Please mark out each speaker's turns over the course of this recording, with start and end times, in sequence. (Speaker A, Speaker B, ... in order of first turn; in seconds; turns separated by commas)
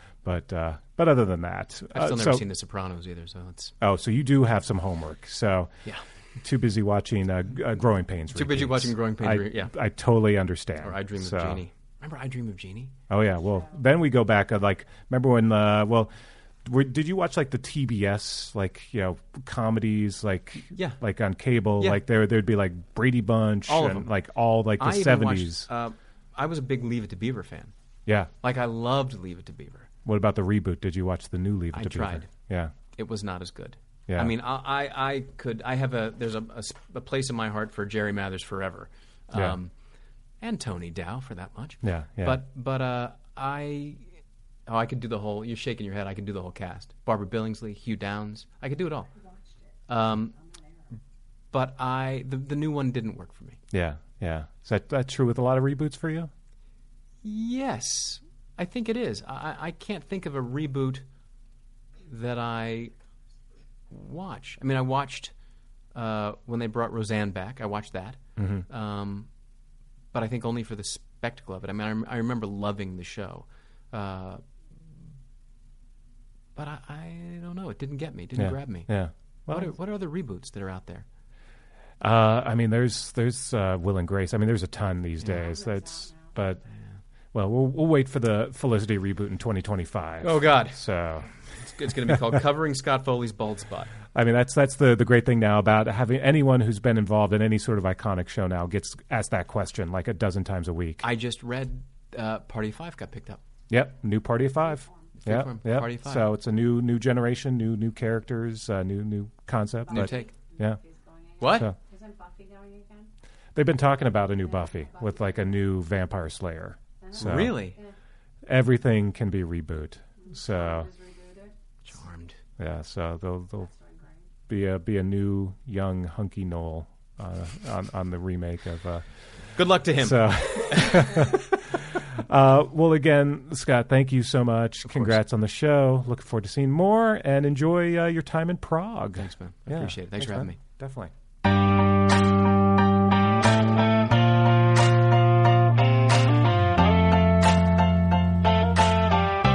Speaker A: 0.2-2.4, Speaker B: 1.9-3.7, Speaker A: 3.8-5.8, Speaker A: 6.4-11.6, Speaker B: 8.3-9.7, Speaker B: 10.8-12.9, Speaker A: 13.1-16.1, Speaker A: 16.6-25.7, Speaker B: 20.7-21.0, Speaker B: 21.8-22.0, Speaker B: 23.7-24.1, Speaker B: 24.8-27.7, Speaker A: 28.1-28.3, Speaker B: 28.4-29.9, Speaker A: 30.0-32.7, Speaker B: 31.7-32.3, Speaker B: 32.9-39.7, Speaker A: 34.1-34.3, Speaker B: 40.4-44.0, Speaker A: 41.8-42.4, Speaker B: 44.7-49.1, Speaker C: 49.1-51.0, Speaker B: 49.9-50.3, Speaker B: 51.5-53.6, Speaker A: 53.7-56.3, Speaker B: 57.2-61.0, Speaker B: 62.1-62.9, Speaker B: 63.9-65.3, Speaker B: 65.9-69.3, Speaker A: 68.4-68.6, Speaker B: 70.1-74.4, Speaker B: 76.5-78.9, Speaker A: 78.4-79.7, Speaker B: 79.5-81.0, Speaker A: 82.0-86.6, Speaker C: 85.2-86.4, Speaker A: 87.3-91.3, Speaker B: 90.2-90.8, Speaker B: 91.6-93.9, Speaker A: 92.0-92.4, Speaker A: 94.1-101.0, Speaker B: 101.0-103.4, Speaker A: 103.7-110.8, Speaker C: 104.6-105.2, Speaker B: 105.2-106.3, Speaker C: 109.8-113.1, Speaker B: 109.9-110.3, Speaker B: 111.4-111.7, Speaker A: 111.5-111.8, Speaker A: 113.5-117.6, Speaker C: 114.2-115.5, Speaker C: 117.0-117.9, Speaker B: 117.1-117.8, Speaker A: 118.5-120.9, Speaker C: 120.2-121.5, Speaker B: 121.8-122.4, Speaker A: 122.6-123.7, Speaker C: 123.6-124.3, Speaker A: 124.5-129.0, Speaker B: 129.6-131.4, Speaker A: 129.8-141.1, Speaker B: 134.8-135.2, Speaker B: 139.2-140.6